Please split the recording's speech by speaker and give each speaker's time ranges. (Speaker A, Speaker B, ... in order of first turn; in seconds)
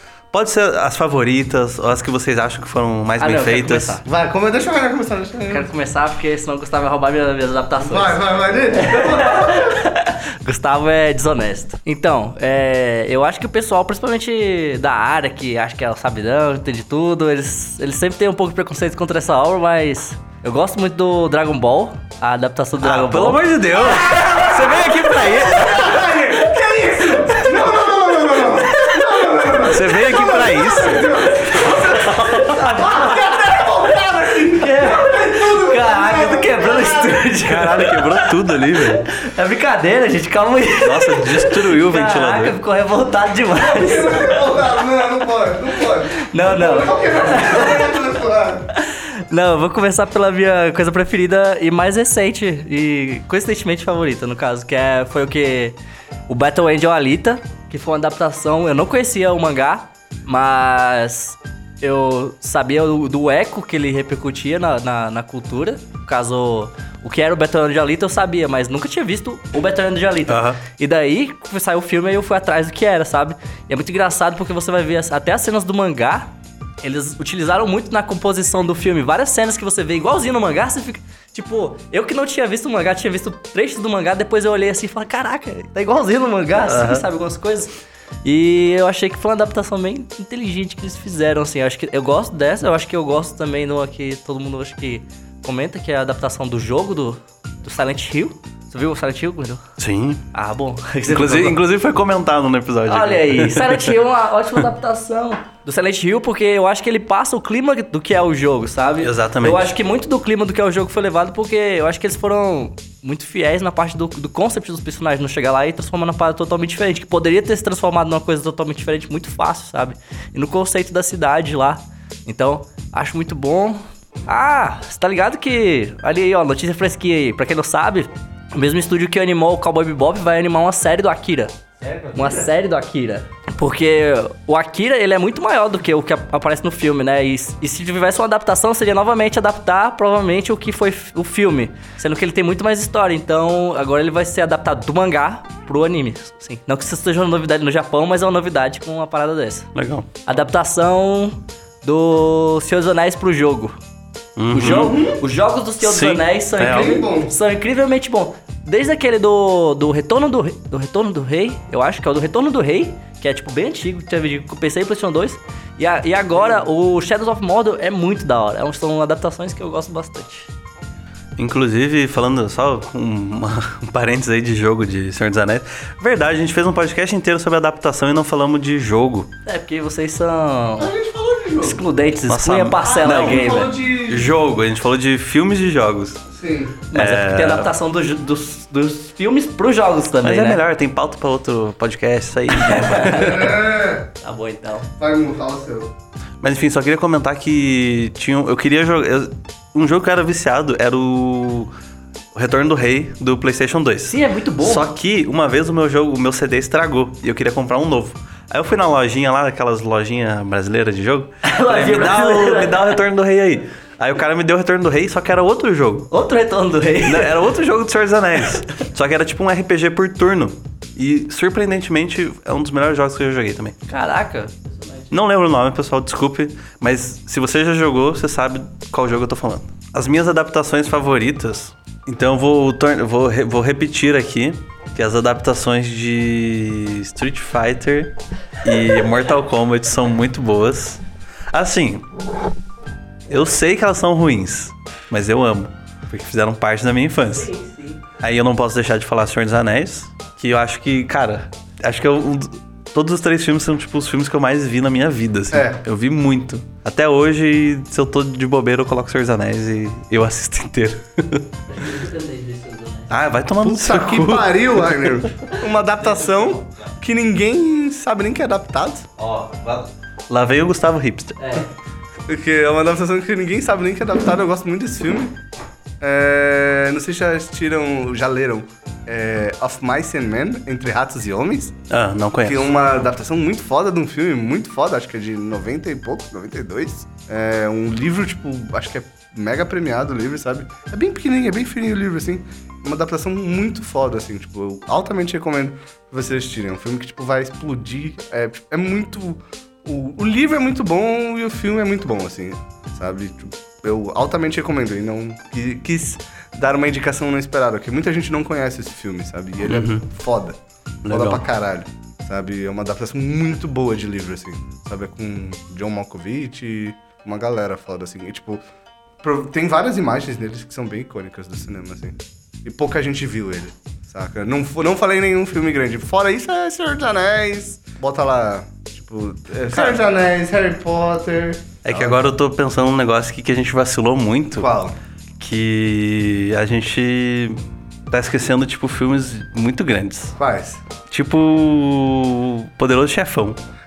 Speaker A: 0.3-4.0, 22.8-26.0, 29.6-31.4, 32.0-32.5, 37.4-39.1, 40.8-42.5, 70.3-70.6, 86.6-87.0, 99.8-100.2, 101.0-103.8, 109.0-109.7, 149.7-150.1, 154.4-154.9, 155.8-157.0, 171.4-179.3, 182.3-186.2, 186.9-187.7, 190.2-193.5, 196.4-201.7, 202.3-216.1, 217.0-223.8, 225.1-242.1, 243.3-247.5, 248.2-261.9, 263.1-265.3, 269.2-271.6, 281.9-282.7, 309.7-310.1, 311.0-311.4, 329.7-330.0, 331.8-334.7, 335.4-337.6, 338.1-340.4, 341.1-343.6
Speaker B: 3.2-4.0, 5.5-24.0, 24.7-26.3, 28.9-33.7, 34.4-44.6, 45.8-48.0, 48.7-55.8, 56.3-76.3, 76.8-87.7, 88.2-99.6, 100.3-101.6, 102.9-149.7, 150.2-153.7, 154.5-170.5, 179.4-180.9, 181.6-183.7, 186.9-190.6, 192.5-193.6, 194.2-194.9, 204.1-204.8, 211.4-213.0, 216.1-217.4, 223.9-225.1, 247.3-248.0, 261.7-263.1, 271.4-271.7
Speaker C: 4.0-5.7, 7.8-9.8, 23.9-37.3, 43.6-48.7, 154.6-155.2, 156.6-157.3, 180.8-181.8, 182.8-184.3, 186.3-186.8, 193.1-194.1, 195.0-195.9, 255.5-255.8, 263.6-269.1, 272.3-275.4, 276.0-281.7, 282.4-318.6, 319.2-332.2, 334.6-334.9, 340.4-340.8